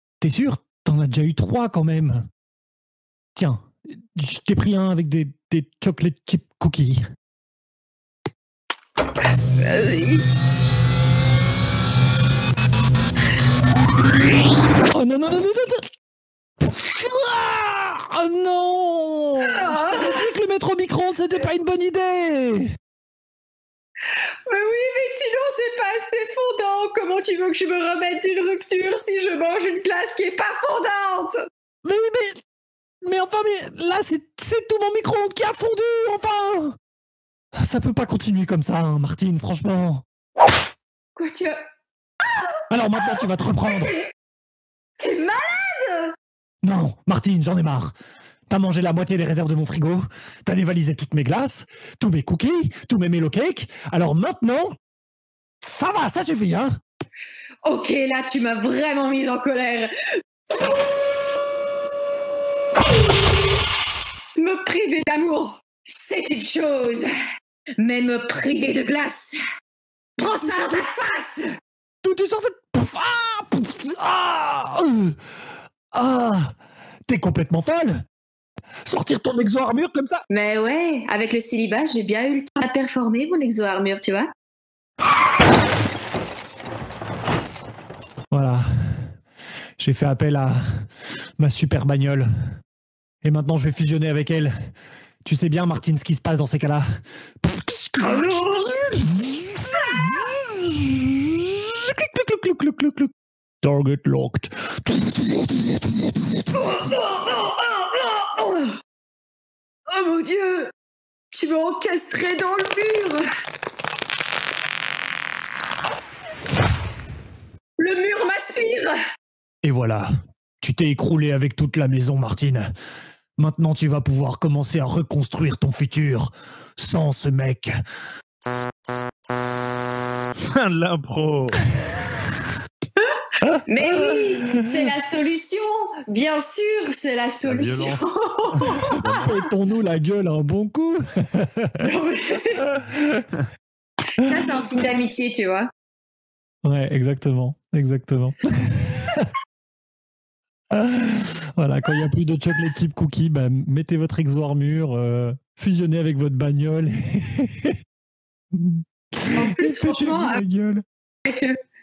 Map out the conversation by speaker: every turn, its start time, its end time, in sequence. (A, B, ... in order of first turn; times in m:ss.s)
0:00.2-0:02.3 A
0:03.4-0:07.1 A
0:09.6-0:10.2 B
0:14.9-0:15.9 A
0:16.6-0:22.7 A
0:19.4-0:20.2 B
0:24.5-0:31.4 B
0:31.8-0:32.4 A
0:33.0-0:36.8 A
0:37.6-0:40.0 A
0:41.2-0:41.6 B
0:42.3-0:42.6 B
0:42.7-0:44.0 A
0:43.7-0:44.1 B
0:45.0-0:46.2 B
0:46.6-0:47.9 A
0:48.5-0:54.8 A
0:55.6-0:56.8 A
0:57.6-1:00.7 B
1:04.4-1:07.1 B
1:07.8-1:09.4 B
1:10.2-1:11.6 B
1:12.0-1:15.2 A
1:15.9-1:16.6 A
1:17.1-1:18.1 A
1:18.9-1:20.2 A
1:20.3-1:24.3 B
1:28.3-1:29.2 A
1:29.8-1:30.9 A
1:31.4-1:32.3 A
1:33.2-1:34.6 A
1:35.2-1:38.4 A
1:38.0-1:39.0 B
1:39.0-1:46.6 A
1:46.6-1:48.8 B
1:49.9-1:50.7 B
1:51.3-1:53.3 B
1:57.8-1:59.0 B
1:59.6-2:02.7 A
2:03.4-2:07.8 A
2:10.4-2:11.7 C
2:13.0-2:19.1 B
2:13.4-2:14.7 A
2:17.4-2:18.0 C
2:18.9-2:19.3 C
2:18.9-2:21.8 A
2:21.8-2:22.6 B
2:22.6-2:23.3 A
2:24.2-2:25.7 B
2:26.6-2:29.3 A
2:30.7-2:37.8 A
2:38.5-2:40.8 A
2:39.3-2:40.4 B
2:41.2-2:41.6 B